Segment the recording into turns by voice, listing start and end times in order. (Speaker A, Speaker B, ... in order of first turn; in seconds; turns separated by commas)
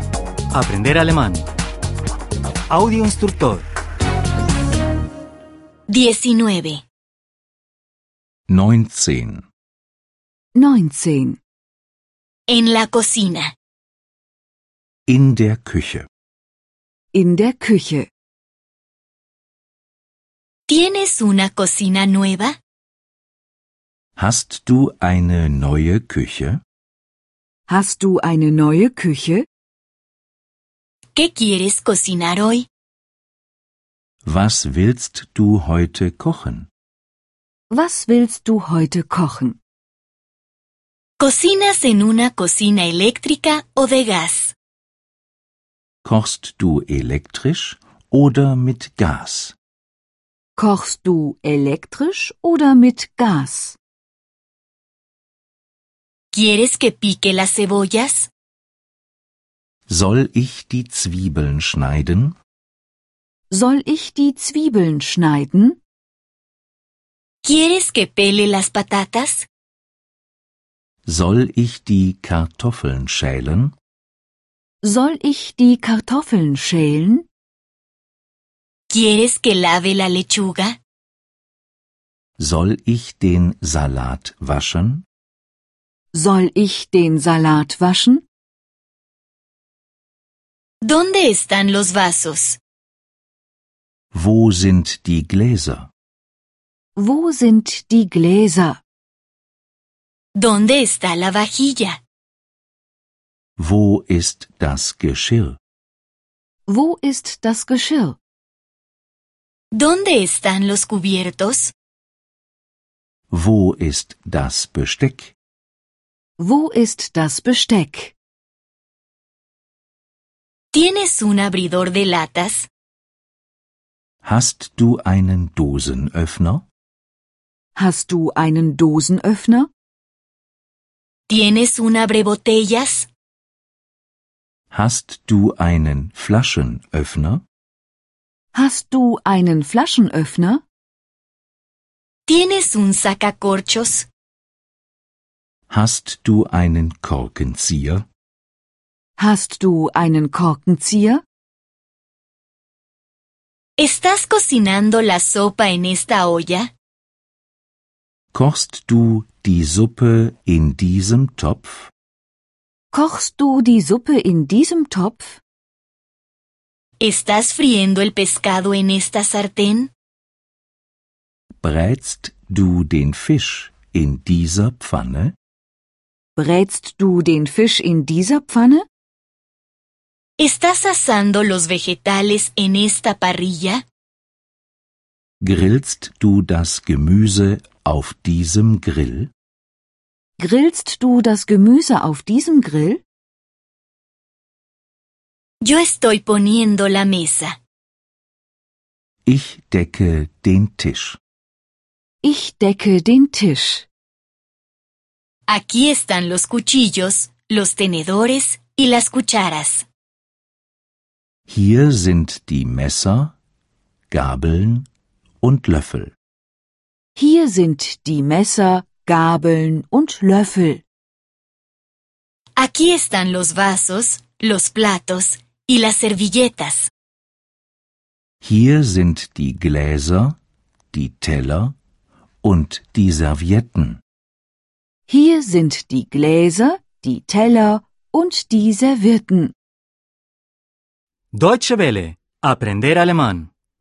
Speaker A: 0.5-1.5, Speaker A: 2.7-3.6, Speaker B: 5.9-6.8, Speaker C: 8.5-9.4, Speaker D: 10.5-11.4, Speaker B: 12.5-13.5, Speaker C: 15.1-16.1, Speaker D: 17.1-18.1, Speaker B: 20.7-22.6, Speaker C: 24.2-26.6, Speaker D: 27.7-29.4, Speaker B: 31.1-32.7, Speaker C: 34.2-36.7, Speaker D: 37.7-39.6, Speaker B: 41.2-44.5, Speaker C: 46.0-49.5, Speaker D: 50.6-53.8, Speaker B: 56.3-58.3, Speaker C: 59.9-62.4, Speaker D: 63.5-65.8, Speaker B: 67.4-69.5, Speaker C: 71.0-73.7, Speaker D: 74.8-77.3, Speaker B: 78.9-80.8, Speaker C: 82.4-85.0, Speaker D: 86.1-88.2, Speaker B: 90.8-92.6, Speaker C: 94.1-95.9, Speaker D: 97.0-98.8, Speaker B: 100.4-102.0, Speaker C: 103.6-105.6, Speaker D: 106.7-108.2, Speaker B: 109.7-111.7, Speaker C: 113.3-115.3, Speaker D: 116.4-118.1, Speaker B: 120.7-122.7, Speaker C: 124.2-126.6, Speaker D: 127.8-129.7, Speaker B: 131.3-133.1, Speaker C: 134.7-137.4, Speaker D: 138.5-140.6, Speaker B: 142.3-144.1, Speaker C: 145.7-148.0, Speaker D: 149.2-151.2, Speaker B: 153.8-156.7, Speaker C: 158.3-161.9, Speaker D: 162.9-165.4, Speaker B: 167.0-169.9, Speaker C: 171.6-175.3, Speaker D: 176.3-178.8, Speaker B: 180.4-183.8, Speaker C: 185.4-189.3, Speaker D: 190.4-193.0, Speaker B: 195.6-197.5, Speaker C: 199.2-201.2, Speaker D: 202.2-203.8, Speaker B: 205.5-209.8, Speaker C: 211.5-213.3, Speaker C: 214.1-214.9, Speaker C: 215.4-216.1, Speaker D: 217.2-220.8, Speaker B: 222.6-226.9, Speaker C: 228.4-230.3, Speaker C: 230.9-231.7, Speaker C: 232.4-234.0, Speaker D: 235.1-239.5, Speaker A: 241.3-243.5